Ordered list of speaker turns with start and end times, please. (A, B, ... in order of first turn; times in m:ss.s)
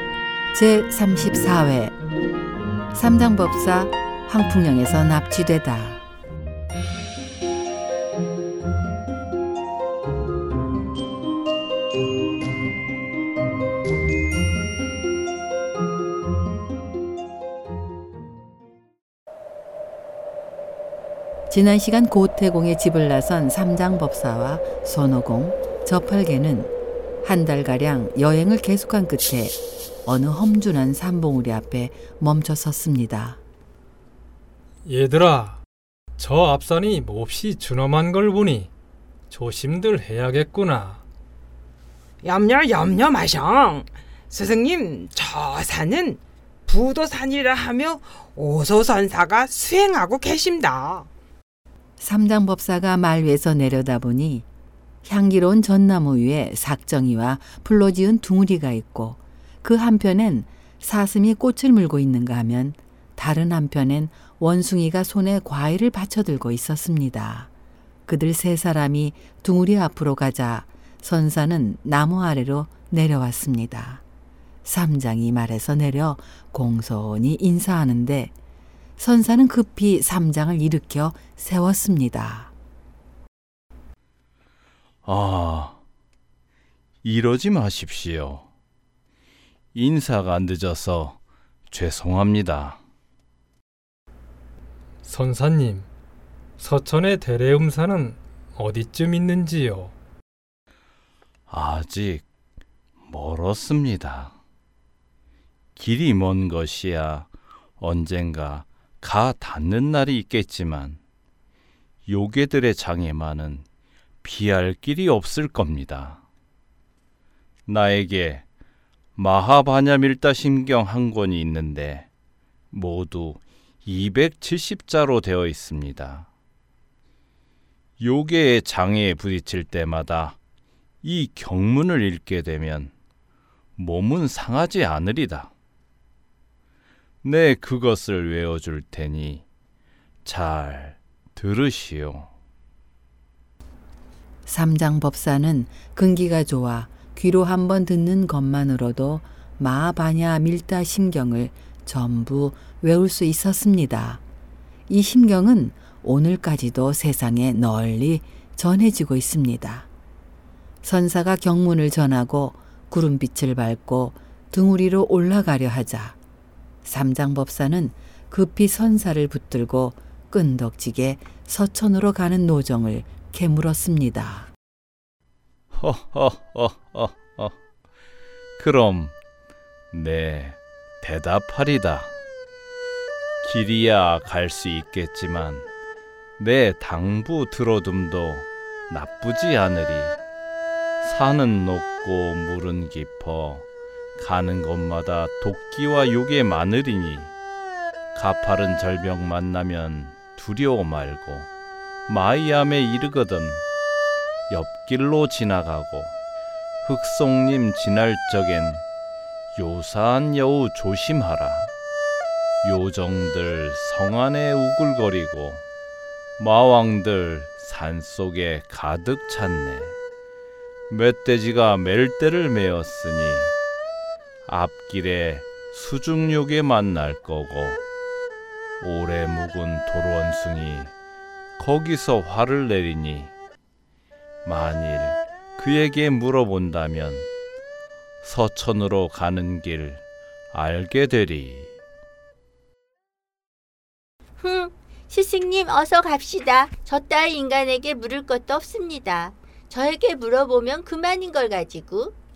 0:00.5-0:02.0 A
0:02.9-0:06.0 A
0:21.5-0:26.7 A
0:27.2-0:33.4 A
0:34.8-0:35.6 B
0:36.2-0:38.7 B
0:39.3-0:41.0 B
0:42.2-0:51.1 C
0:52.0-0:54.5 A
0:55.0-1:07.5 A
1:08.0-1:14.0 A
1:14.6-1:18.3 A
1:19.0-1:22.5 A
1:25.0-1:25.8 D
1:27.0-1:28.5 D
1:29.7-1:31.2 D
1:31.7-1:32.8 D
1:35.0-1:35.9 B
1:36.6-1:39.9 B
1:41.5-1:42.2 D
1:43.0-1:44.3 D
1:45.8-1:51.0 D
1:52.0-1:53.6 D
1:54.2-1:56.2 D
1:57.6-1:58.4 D
1:59.2-2:02.1 D
2:02.7-2:06.3 D
2:08.0-2:10.4 D
2:11.0-2:12.9 D
2:13.8-2:15.5 D
2:17.2-2:19.4 D
2:20.2-2:22.3 D
2:24.4-2:34.2 A
2:34.9-2:39.9 A
2:40.8-2:46.2 A
2:46.8-2:54.5 A
2:55.7-2:57.5 D
2:58.6-2:59.1 D
2:59.9-3:02.1 D
3:03.4-3:05.7 D
3:06.4-3:10.2 D
3:11.0-3:13.6 D
3:14.2-3:17.3 D
3:18.1-3:21.5 D
3:22.1-3:23.6 D
3:24.5-3:26.1 D
3:26.8-3:28.8 D
3:29.6-3:31.7 D
3:32.6-3:35.6 D
3:36.4-3:40.0 D
3:40.9-3:43.5 D
3:44.4-3:47.8 D
3:48.8-3:50.9 D
3:51.6-3:53.3 D
3:54.4-3:57.3 D
3:58.2-4:01.7 D
4:04.4-4:12.1 E